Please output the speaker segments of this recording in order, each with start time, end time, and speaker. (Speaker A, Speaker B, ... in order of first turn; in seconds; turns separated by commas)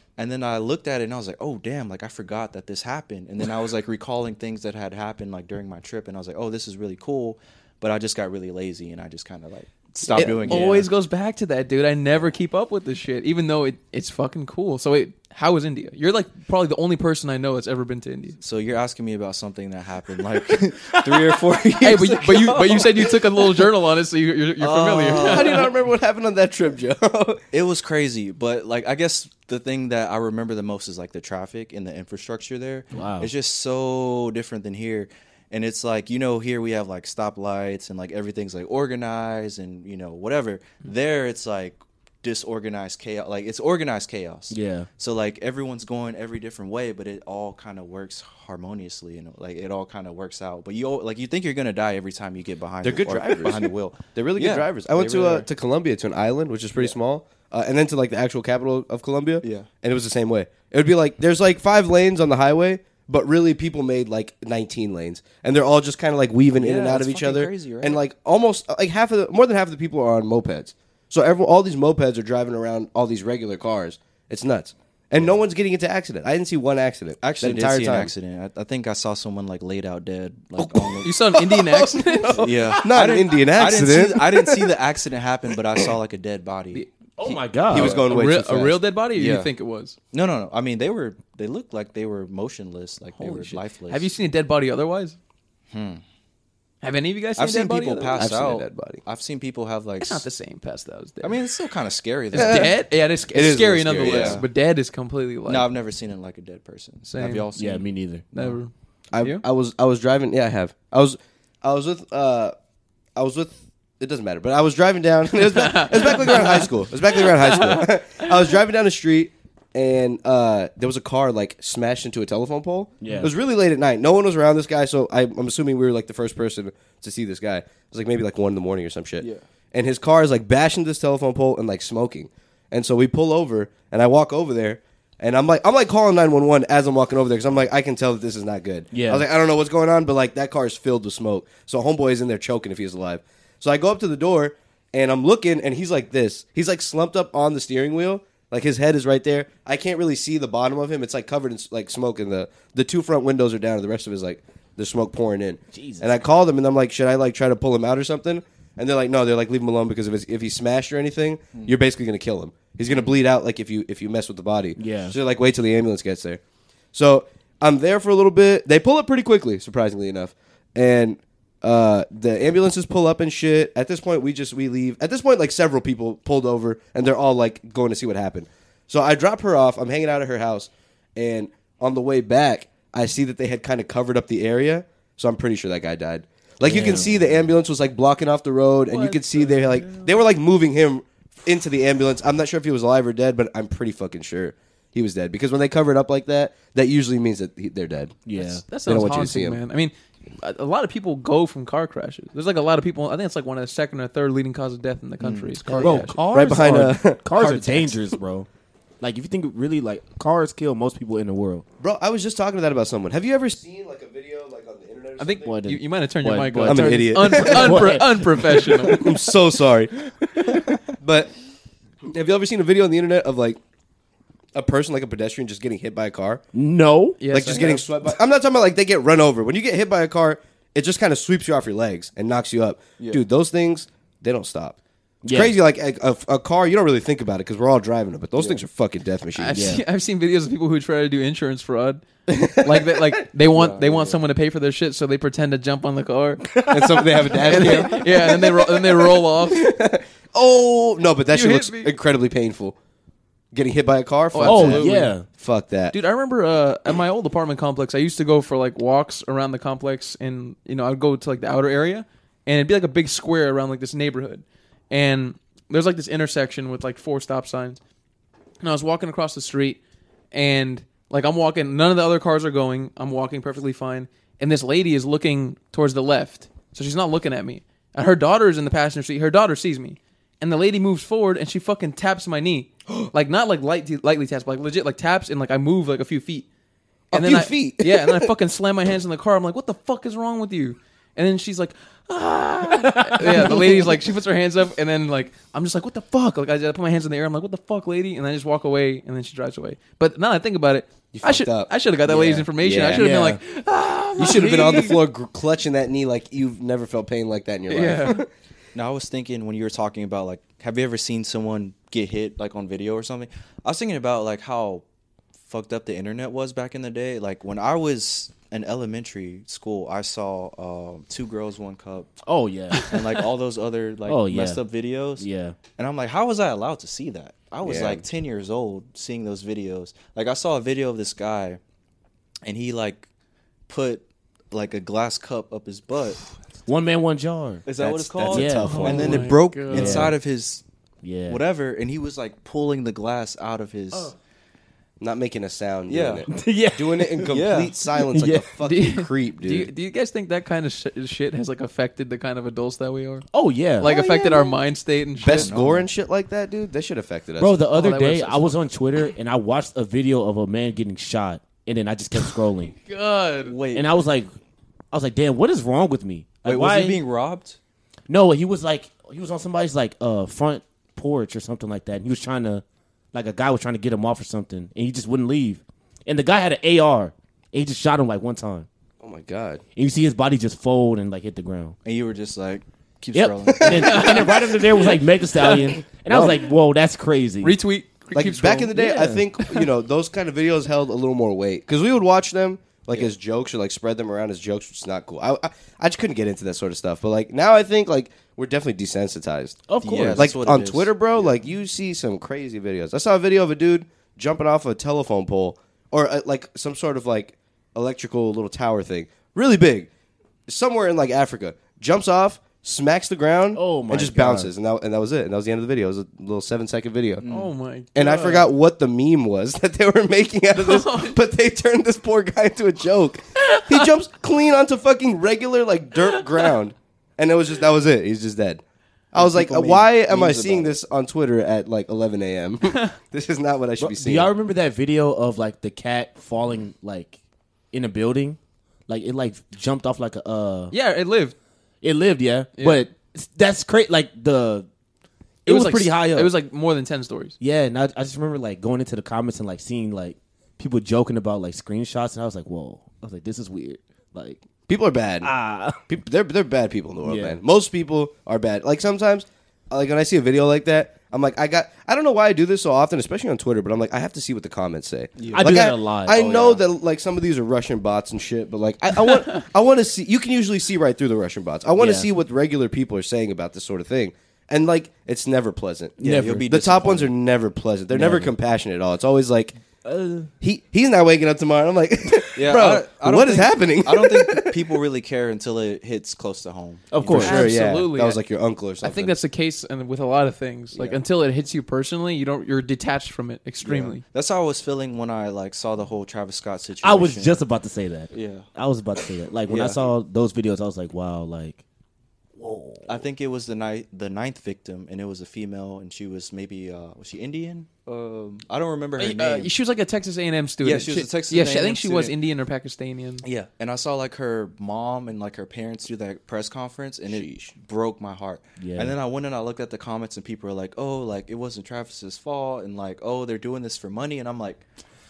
Speaker A: 0.2-10.9, Speaker B: 10.1-18.4, Speaker C: 10.1-10.7, Speaker A: 18.4-23.1, Speaker B: 21.8-25.7, Speaker A: 24.6-25.7, Speaker C: 25.1-27.4, Speaker A: 27.5-55.5, Speaker D: 32.9-33.3, Speaker D: 44.5-44.9, Speaker C: 52.8-78.1, Speaker A: 59.4-59.7, Speaker A: 66.5-68.0, Speaker A: 77.2-81.1, Speaker C: 80.6-84.7, Speaker B: 81.0-82.5, Speaker A: 82.3-86.8, Speaker B: 86.7-90.0, Speaker D: 87.2-88.0, Speaker C: 87.7-88.8, Speaker A: 89.1-89.5, Speaker A: 90.1-94.1, Speaker B: 93.2-95.2, Speaker A: 95.7-96.0, Speaker B: 96.8-98.2, Speaker A: 97.4-100.2, Speaker C: 98.2-99.0, Speaker B: 100.0-101.4, Speaker A: 101.2-102.7, Speaker C: 102.3-104.4, Speaker B: 102.3-105.7, Speaker A: 104.0-104.5, Speaker A: 105.5-107.9, Speaker B: 107.1-107.5, Speaker D: 107.5-108.2, Speaker B: 108.3-109.4, Speaker C: 109.1-112.5, Speaker C: 113.2-166.4, Speaker B: 115.4-117.8, Speaker D: 123.0-123.3, Speaker B: 123.0-123.3, Speaker D: 138.9-139.2, Speaker D: 155.7-156.1, Speaker D: 164.8-165.2, Speaker C: 166.9-198.2, Speaker D: 186.6-187.4, Speaker B: 188.9-190.1, Speaker D: 198.2-198.6, Speaker B: 198.3-206.2, Speaker C: 198.8-199.6, Speaker A: 205.2-205.5, Speaker C: 205.7-208.1, Speaker D: 205.8-208.5, Speaker D: 209.0-211.6, Speaker C: 211.8-215.6, Speaker B: 215.2-219.2, Speaker D: 215.4-219.1, Speaker C: 216.6-221.3, Speaker D: 220.5-220.7, Speaker C: 222.1-223.6, Speaker C: 224.5-226.4, Speaker D: 226.5-227.2, Speaker B: 227.2-227.9, Speaker C: 227.3-234.8, Speaker A: 233.0-233.2, Speaker D: 235.2-235.6, Speaker C: 235.3-239.6, Speaker A: 238.4-238.6, Speaker B: 239.3-246.5, Speaker D: 239.5-239.8, Speaker C: 242.3-243.1, Speaker A: 243.5-244.2, Speaker D: 246.5-248.3, Speaker C: 246.7-252.8, Speaker B: 247.4-249.7, Speaker B: 251.3-251.9, Speaker C: 253.5-255.9, Speaker B: 254.3-255.2, Speaker D: 254.4-255.2, Speaker B: 255.9-267.8, Speaker B: 268.6-269.8, Speaker B: 270.3-286.5, Speaker C: 287.1-288.3, Speaker B: 287.1-305.0, Speaker D: 292.8-293.9, Speaker C: 301.1-303.1, Speaker D: 302.9-303.4, Speaker C: 304.2-308.3, Speaker B: 307.7-308.2, Speaker A: 308.7-314.8, Speaker A: 315.5-322.1, Speaker D: 322.2-322.8, Speaker B: 322.7-323.2, Speaker A: 322.9-325.3, Speaker D: 324.1-324.6, Speaker D: 325.2-325.6, Speaker A: 325.8-331.6, Speaker C: 327.6-328.0, Speaker A: 332.4-333.1, Speaker A: 333.7-336.2, Speaker D: 336.6-337.6, Speaker A: 337.6-340.6, Speaker C: 337.8-339.3, Speaker D: 338.2-340.1, Speaker B: 338.6-340.1, Speaker D: 341.0-341.4, Speaker A: 341.2-344.1, Speaker C: 345.0-349.7, Speaker A: 345.9-346.2, Speaker D: 346.3-348.5, Speaker A: 347.3-347.8, Speaker B: 348.6-353.2, Speaker D: 353.3-354.5, Speaker B: 353.8-355.6, Speaker C: 355.2-357.6, Speaker A: 355.3-355.9, Speaker D: 357.4-362.7, Speaker B: 357.7-358.6, Speaker B: 362.8-363.5, Speaker A: 363.4-364.0, Speaker D: 363.7-364.3, Speaker D: 364.9-367.0, Speaker A: 366.4-367.6, Speaker D: 368.1-378.7, Speaker C: 379.0-379.6, Speaker D: 379.8-381.8, Speaker A: 381.8-384.3, Speaker D: 383.1-387.6, Speaker B: 383.6-385.6, Speaker C: 386.1-386.4, Speaker B: 387.4-388.8, Speaker C: 388.1-409.9, Speaker D: 388.7-389.2, Speaker D: 399.7-400.3, Speaker A: 399.8-400.9, Speaker C: 410.5-417.2, Speaker D: 413.6-414.5, Speaker A: 417.2-417.5, Speaker B: 417.2-418.5, Speaker C: 417.9-428.6, Speaker B: 420.5-421.2, Speaker B: 423.4-423.8, Speaker C: 429.1-434.3, Speaker A: 429.1-430.7, Speaker B: 432.7-432.9, Speaker D: 433.8-437.2, Speaker D: 437.7-440.7, Speaker B: 440.7-441.3, Speaker D: 441.8-444.7, Speaker B: 442.6-442.9, Speaker D: 445.4-446.3, Speaker B: 445.4-447.3, Speaker D: 447.4-454.4, Speaker C: 454.7-455.3, Speaker D: 455.2-455.8, Speaker C: 455.9-479.6, Speaker D: 457.0-457.4, Speaker A: 465.2-465.5, Speaker D: 465.3-466.6, Speaker D: 471.8-472.1, Speaker D: 476.0-476.4, Speaker A: 476.0-477.1, Speaker D: 477.9-478.3, Speaker D: 479.8-480.3, Speaker C: 480.4-484.6, Speaker A: 482.4-487.2, Speaker D: 486.9-487.5, Speaker C: 487.0-489.1, Speaker B: 487.2-488.2, Speaker B: 488.8-494.0, Speaker C: 490.7-491.0, Speaker C: 493.6-493.9, Speaker A: 494.0-497.4, Speaker D: 496.8-501.6, Speaker A: 498.1-498.5, Speaker A: 499.5-499.9, Speaker D: 502.4-503.0, Speaker A: 502.9-509.5, Speaker B: 509.0-513.2, Speaker A: 510.6-512.1, Speaker A: 513.2-524.6, Speaker C: 517.1-517.5, Speaker D: 518.6-518.9